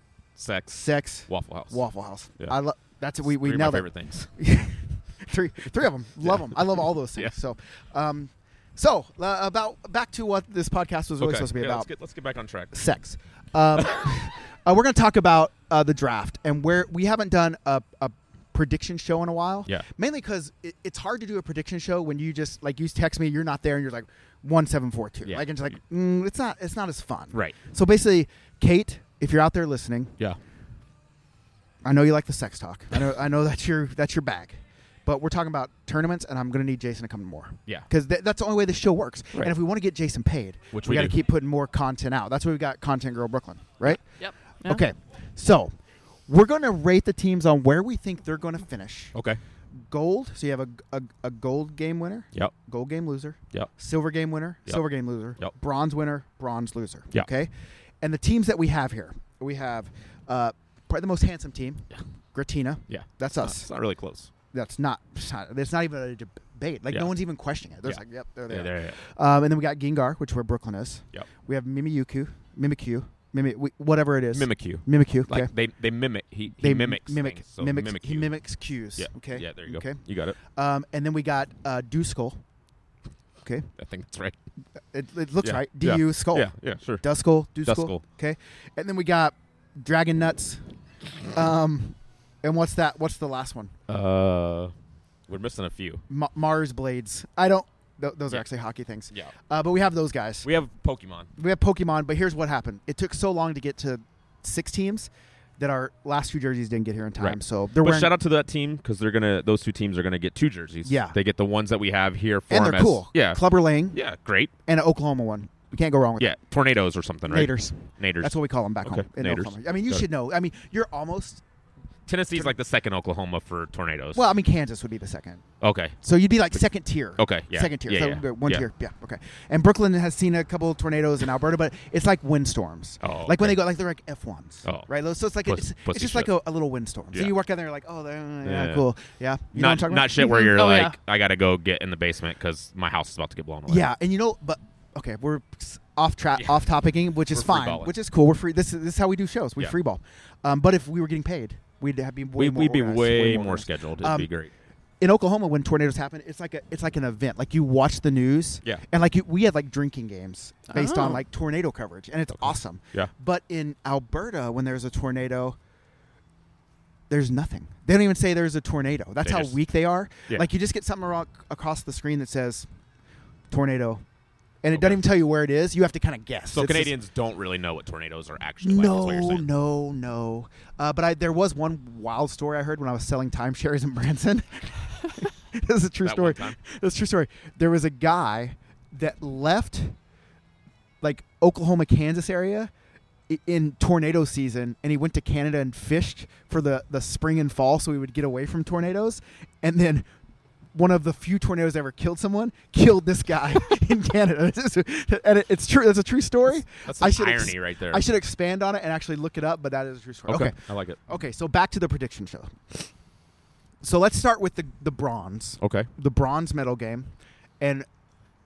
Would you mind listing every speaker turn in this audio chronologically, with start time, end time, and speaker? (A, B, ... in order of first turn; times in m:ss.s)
0:00.4-0:01.8 A
0:00.7-0:11.9 B
0:03.2-0:04.3 A
0:11.2-0:12.8 A
0:12.7-0:30.2 B
0:25.2-0:25.5 A
0:31.8-0:44.0 B
0:40.7-0:41.2 A
0:44.2-0:44.8 C
0:44.6-0:45.7 B
0:46.3-0:49.1 B
0:49.1-0:49.4 A
0:49.9-1:03.7 B
1:02.9-1:04.3 A
1:04.5-1:15.5 B
1:07.8-1:09.0 A
1:14.3-1:18.3 A
1:16.6-1:22.4 B
1:19.0-1:20.4 A
1:23.4-1:23.7 B
1:23.8-1:24.4 A
1:24.9-1:30.6 B
1:25.4-1:27.0 A
1:27.6-1:28.0 A
1:31.3-1:33.7 B
1:33.9-1:34.7 A
1:35.3-1:36.0 A
1:36.1-1:40.5 B
1:40.4-1:41.3 A
1:41.4-1:48.1 B
1:47.2-1:54.5 A
1:50.8-1:51.2 B
1:52.5-1:54.0 B
1:54.6-1:56.4 B
1:56.2-2:00.0 A
1:57.3-2:01.4 B
2:02.1-2:04.2 A
2:04.1-2:05.4 B
2:05.6-2:06.0 A
2:06.0-2:20.5 B
2:07.2-2:08.6 A
2:13.0-2:13.6 A
2:15.4-2:16.3 A
2:18.4-2:18.9 A
2:19.5-2:23.9 A
2:20.2-2:20.9 C
2:23.7-2:34.3 B
2:27.3-2:27.9 A
2:32.4-2:34.5 A
2:35.0-2:45.6 B
2:40.7-2:41.2 C
2:42.4-2:43.1 A
2:47.1-2:52.7 B
2:49.2-2:49.6 A
2:53.5-2:54.0 B
2:54.6-2:56.9 B
2:54.7-2:55.0 A
2:56.5-2:59.5 A
2:58.6-3:10.0 B
3:06.0-3:06.6 A
3:11.0-3:12.7 B
3:13.3-3:20.1 B
3:20.7-3:32.8 B
3:26.8-3:28.1 A
3:30.3-3:31.0 A
3:33.8-3:37.9 B
3:35.6-3:35.9 A